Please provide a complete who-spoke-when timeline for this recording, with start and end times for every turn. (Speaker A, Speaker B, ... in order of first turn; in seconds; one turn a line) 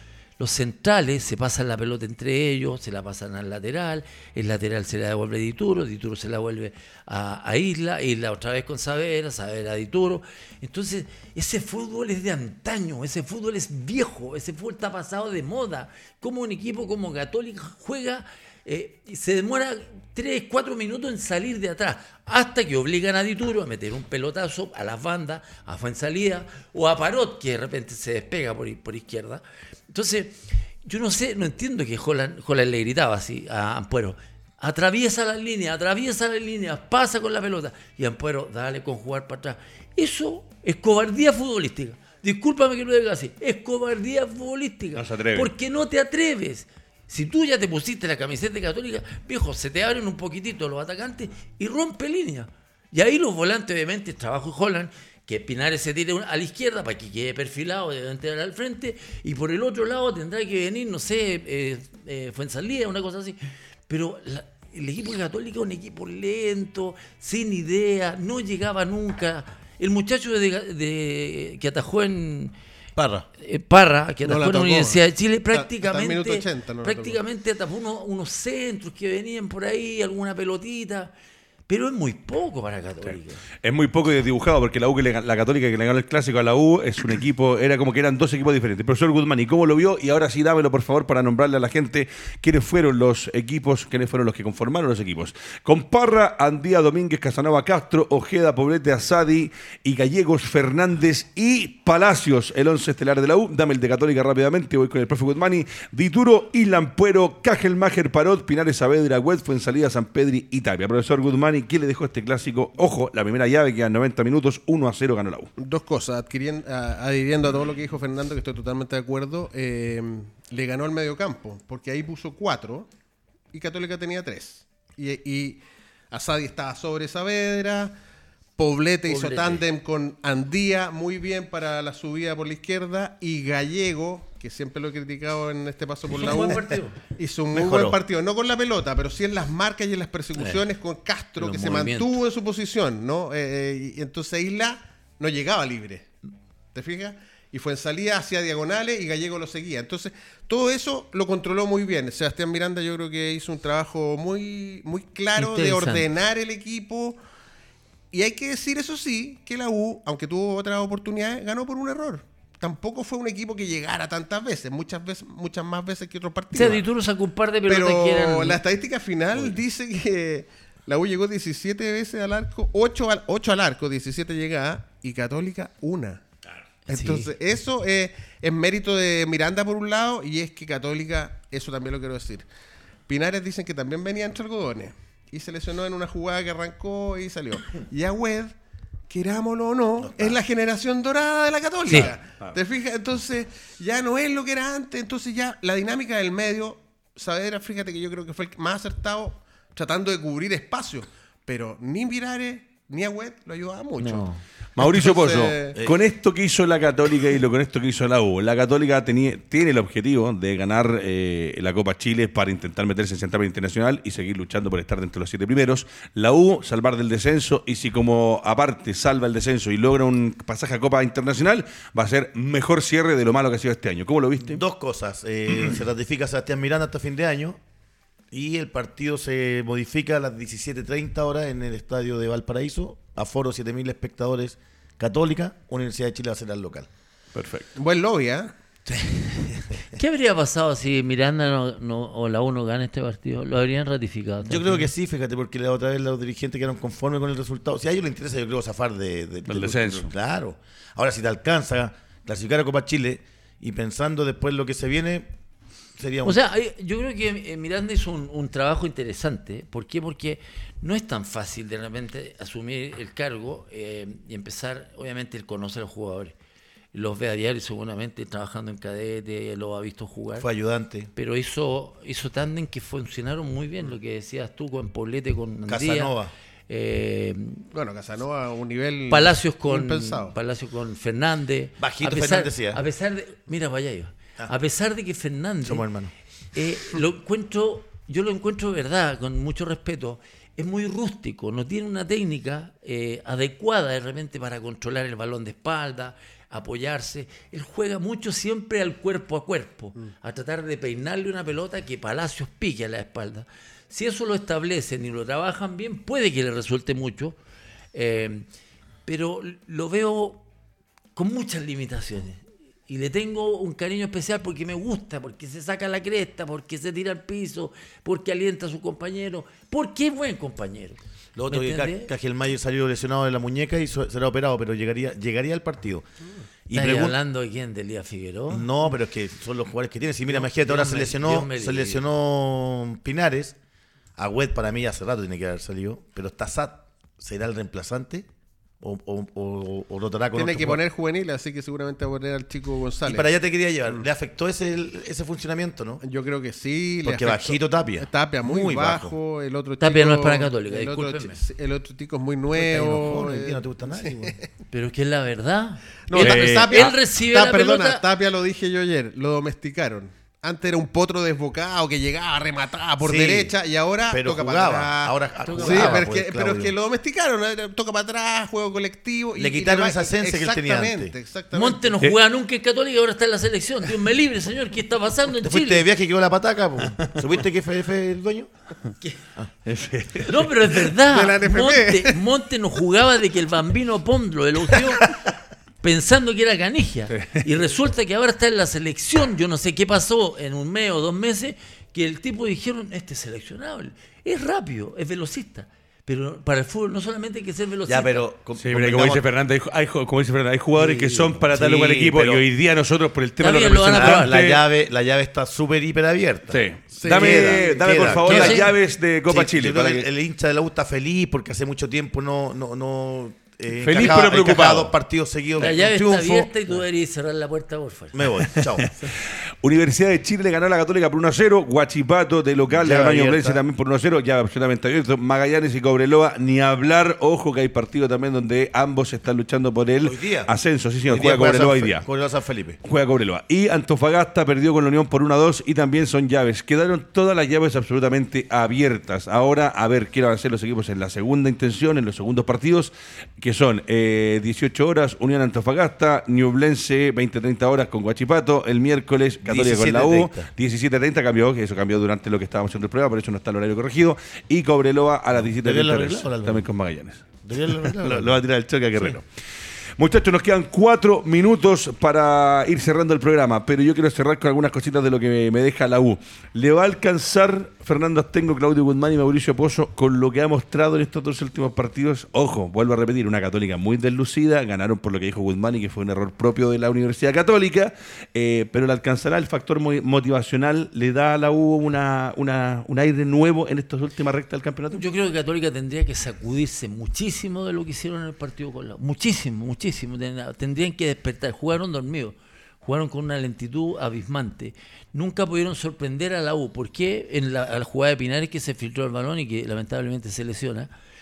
Speaker A: 0.4-63.4
Speaker B: 45.0-45.5
Speaker A: 63.9-72.5
Speaker C: 73.0-73.2
Speaker A: 73.4-81.1
Speaker D: 74.2-77.2
Speaker A: 81.7-83.4
Speaker B: 83.6-115.5
Speaker D: 115.6-122.9
Speaker D: 123.5-128.0
Speaker D: 128.6-146.1
Speaker A: 129.1-129.6
Speaker A: 136.1-137.0
Speaker C: 137.5-138.0
Speaker A: 141.4-142.2
Speaker D: 146.7-157.2
Speaker A: 155.4-156.1
Speaker D: 158.1-166.8
Speaker A: 166.5-168.6
Speaker D: 167.7-176.2
Speaker D: 176.9-182.4
Speaker A: 176.9-177.3
Speaker D: 183.1-188.5
Speaker D: 189.1-205.8
Speaker C: 190.0-190.4
Speaker A: 204.0-204.4
Speaker B: 204.8-224.6
Speaker C: 205.8-206.0
Speaker C: 224.4-227.6
Speaker C: 228.3-236.9
Speaker B: 237.3-237.7
Speaker D: 237.8-238.5
Speaker A: 238.9-244.9
Speaker C: 244.4-255.3
Speaker B: 249.5-250.1
Speaker C: 256.0-256.4
Speaker A: 256.2-266.3
Speaker A: 266.9-270.5
Speaker C: 270.4-271.1
Speaker A: 271.1-276.1
Speaker C: 275.7-276.3
Speaker A: 276.7-277.7
Speaker D: 277.7-280.3
Speaker A: 279.1-285.9
Speaker C: 281.8-282.8
Speaker C: 285.6-286.1
Speaker A: 286.5-307.4
Speaker A: 307.9-308.5
Speaker A: 309.1-310.5
Speaker A: 311.2-322.1
Speaker C: 321.4-326.1
Speaker C: 326.7-327.1
Speaker A: 326.7-328.7
Speaker C: 328.5-333.6
Speaker A: 330.3-332.0
Speaker C: 334.2-338.3
Speaker C: 338.8-340.8
Speaker D: 340.4-343.3
Speaker C: 343.0-346.0
Speaker D: 346.0-354.5
Speaker C: 347.0-349.1
Speaker A: 349.8-351.4
Speaker C: 352.5-354.4
Speaker A: 354.7-358.0
Speaker D: 356.1-372.0
Speaker B: 356.2-356.9
Speaker C: 363.0-363.5
Speaker C: 364.1-366.7
Speaker A: 365.4-366.1
Speaker C: 369.4-371.1
Speaker A: 371.5-375.9
Speaker C: 375.4-378.5
Speaker B: 379.7-380.4
Speaker A: 380.2-385.2
Speaker D: 381.0-382.2
Speaker A: 385.8-398.3
Speaker C: 397.9-399.2
Speaker B: 398.5-404.6
Speaker A: 400.8-402.4
Speaker A: 403.4-404.4
Speaker C: 403.9-408.8
Speaker B: 406.5-410.1
Speaker D: 407.0-408.2
Speaker A: 408.2-408.7
Speaker C: 409.3-416.5
Speaker B: 413.8-414.9
Speaker A: 415.6-418.4
Speaker C: 418.1-419.1
Speaker B: 418.4-432.1
Speaker C: 422.7-423.6
Speaker C: 430.0-430.5
Speaker C: 431.1-432.8
Speaker B: 432.8-459.2
Speaker C: 449.4-450.5
Speaker C: 455.4-456.7
Speaker C: 457.5-459.2
Speaker B: 460.0-485.0
Speaker A: 484.9-500.9